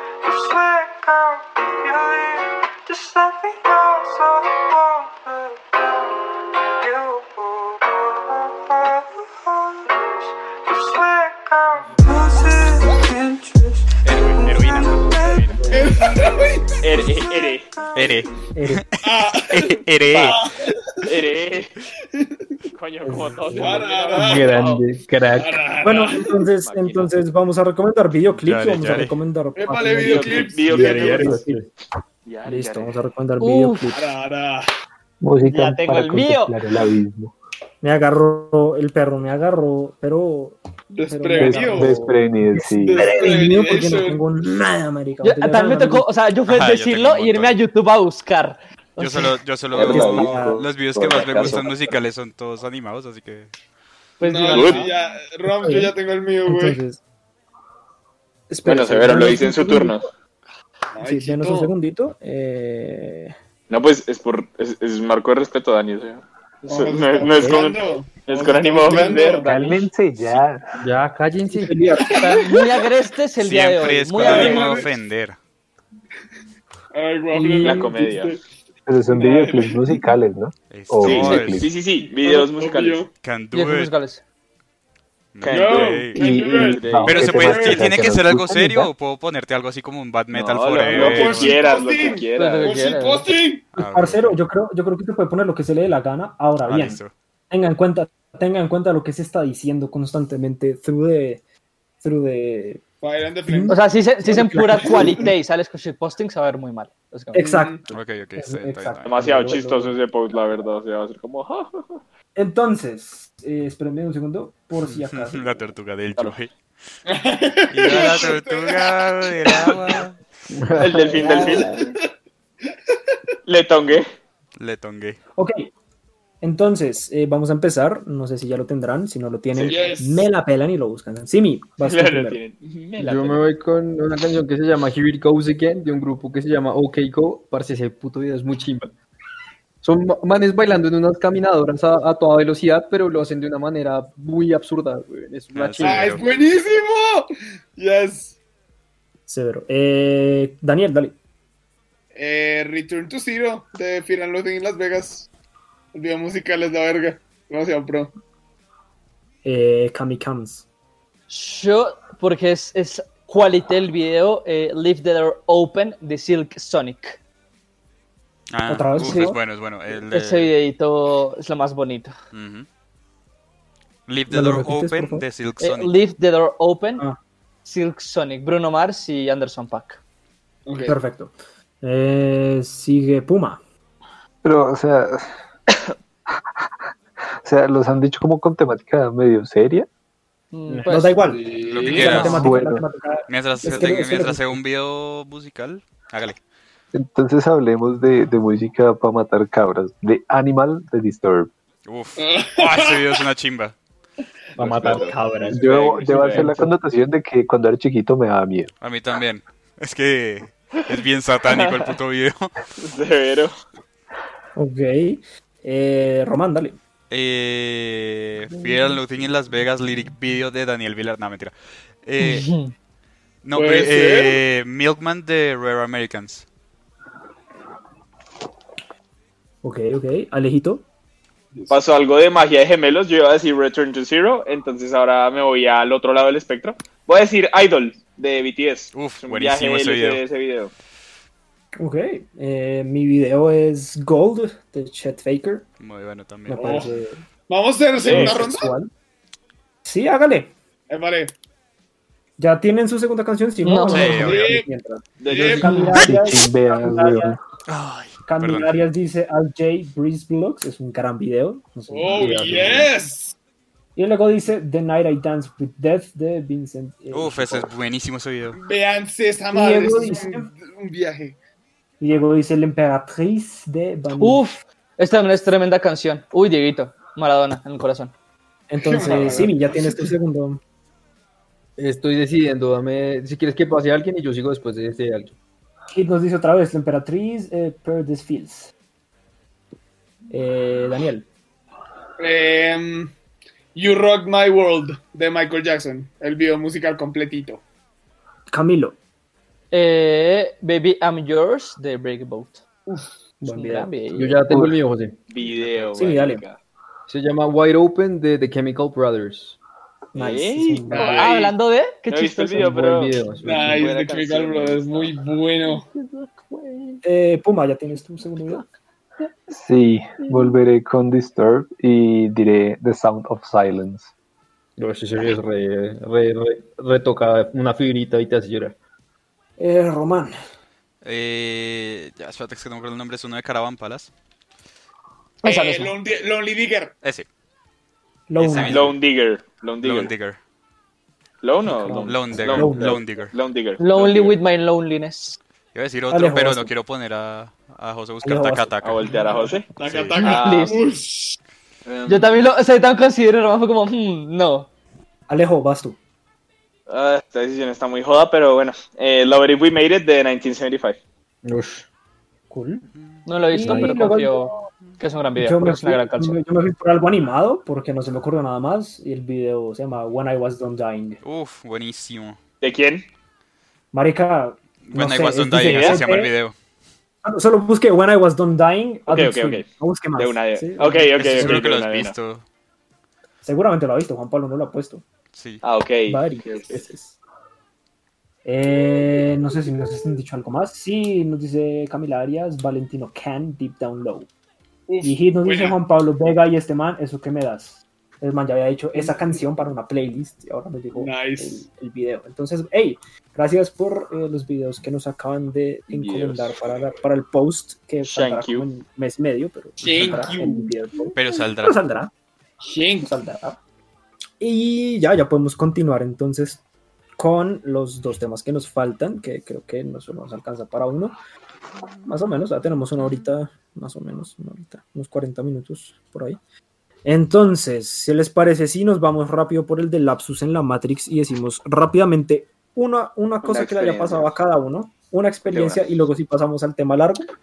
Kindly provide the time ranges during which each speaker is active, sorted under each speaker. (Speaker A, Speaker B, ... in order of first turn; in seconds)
Speaker A: 0.3-2.4, 2.9-5.0, 6.8-7.5, 10.7-12.6
Speaker B: 14.0-16.1, 16.8-18.2, 20.1-20.4, 21.0-21.7, 22.7-24.9, 25.8-27.1, 30.0-31.4, 32.2-33.0, 35.4-36.5, 49.8-50.2, 51.1-51.6, 54.5-54.9, 58.6-60.0, 63.7-70.4, 77.6-78.4, 81.0-83.0, 85.4-87.4, 90.3-92.7, 109.0-112.0, 117.9-118.3, 120.8-121.8, 123.5-124.1, 129.6-129.8, 131.8-133.4, 204.6-206.4, 211.5-211.8, 212.8-213.5, 231.7-240.7, 248.0-248.4, 255.2-255.8, 305.3-306.6, 310.1-311.5, 312.1-315.3, 338.7-340.1, 341.4-344.4, 348.8-350.8, 351.9-352.4, 356.9-361.0, 372.6-373.1, 375.6-376.0, 379.1-379.6, 380.2-382.1, 385.6-386.8, 405.9-406.5, 408.0-408.7, 433.4-434.3, 435.5-435.9
Speaker C: 15.6-16.8, 19.0-21.1, 23.5-24.6, 25.3-26.3, 29.5-30.9, 33.9-34.7, 40.9-42.0, 42.8-44.2, 54.2-56.8, 60.9-61.7, 66.7-69.5, 72.0-72.9, 74.1-74.9, 76.9-78.4, 79.1-80.1, 82.2-83.1, 85.5-87.8, 90.9-93.7, 103.0-103.8, 104.7-105.3, 107.4-107.8, 117.0-120.0, 121.4-122.0, 129.6-130.3, 145.8-148.4, 152.1-155.3, 155.9-158.1, 180.7-181.0, 191.2-192.3, 202.2-203.2, 204.8-206.4, 223.5-224.4, 246.6-247.0, 247.5-248.7, 250.9-251.3, 254.1-254.7, 255.3-255.9, 261.9-263.3, 268.6-271.4, 278.8-280.1, 292.2-293.1, 293.7-297.6, 302.9-303.2, 310.9-311.3, 313.4-315.9, 335.4-336.9, 349.7-351.4, 394.9-395.8, 398.9-399.4, 400.9-401.6, 409.8-410.7, 412.6-413.1
Speaker D: 17.9-18.9, 19.5-20.4, 28.3-29.1, 46.5-47.5, 49.0-53.5, 73.4-75.4, 80.7-81.7, 83.2-83.9, 85.3-86.2, 87.0-92.1, 93.8-94.4, 96.7-97.1, 107.9-109.5, 114.8-116.5, 117.7-120.2, 124.6-125.2, 145.5-146.2, 168.5-170.5, 172.3-172.7, 174.1-175.9, 191.6-192.5, 193.3-196.4, 201.8-203.8, 208.8-212.5, 217.1-222.5, 223.4-226.4, 238.9-240.2, 245.8-246.8, 253.9-254.5, 257.7-258.8, 267.1-268.6, 331.0-334.1, 337.0-337.3, 338.4-338.9, 339.8-340.4, 341.9-343.3, 345.7-349.1, 349.9-350.2, 371.2-372.4, 374.8-376.5, 381.4-382.4, 385.3-385.6, 411.1-411.9
Speaker E: 18.5-18.8, 23.0-23.9, 25.8-31.6, 32.4-34.0, 37.8-46.0, 49.8-50.6, 54.2-54.9, 55.4-55.9, 56.5-57.0, 58.5-60.1, 61.0-63.3, 67.2-67.7, 71.5-72.3, 93.8-101.4, 102.0-102.8, 103.5-105.3, 107.3-110.0, 112.3-115.7, 121.1-121.9, 125.3-125.7, 126.4-132.4, 149.3-151.2, 159.4-160.6, 168.7-169.4, 174.3-175.2, 180.9-183.6, 190.8-194.6, 204.6-206.7, 214.6-216.8, 229.6-230.8, 241.8-245.7, 246.5-247.2, 248.1-248.9, 249.8-250.5, 252.4-257.4, 258.2-262.9, 263.9-267.7, 269.5-270.5, 272.0-274.4, 278.7-280.6, 285.9-288.7, 290.3-291.2, 298.5-298.9, 303.4-303.9, 305.9-306.4, 310.1-311.1, 317.0-318.7, 329.6-330.3, 338.3-338.9, 341.6-343.0, 346.1-346.7, 348.2-349.6, 355.3-356.0, 362.5-362.9, 363.5-364.7, 365.4-371.2, 373.9-376.3, 377.2-381.6, 383.4-385.0, 386.1-387.2, 388.4-394.3, 395.0-412.1, 413.0-413.6, 414.4-416.6, 417.2-421.1, 422.0-426.4, 427.0-437.3
Speaker F: 24.1-25.6, 30.7-31.6, 70.8-72.0, 120.6-120.9, 133.0-138.9, 139.8-146.3, 262.1-262.9, 281.8-285.4, 304.1-305.5, 307.1-309.6, 312.6-313.9, 315.9-317.0, 324.8-328.8, 361.4-361.9, 363.6-364.1
Speaker G: 30.7-31.6, 35.2-37.3, 41.4-43.0, 49.7-52.0, 69.4-70.8, 77.3-77.9, 78.8-81.7, 86.1-88.9, 184.4-185.4, 187.3-189.9, 192.3-192.8, 196.9-201.5, 205.5-208.7, 255.9-257.4, 304.5-304.8, 319.5-324.1
Speaker H: 33.4-33.9, 45.2-49.3, 54.2-54.9, 72.1-74.8, 83.5-84.2, 92.3-93.3, 103.7-107.5, 121.2-121.7, 161.3-167.2, 169.0-169.3, 170.0-172.1, 175.6-177.0, 177.6-180.0, 190.5-191.2, 191.8-192.5, 222.2-222.7, 253.6-254.2, 255.6-256.0, 274.1-278.1, 299.7-302.6, 303.4-304.6, 311.0-312.6, 335.4-335.9, 343.8-345.4, 350.2-350.8, 352.1-354.7, 363.2-366.4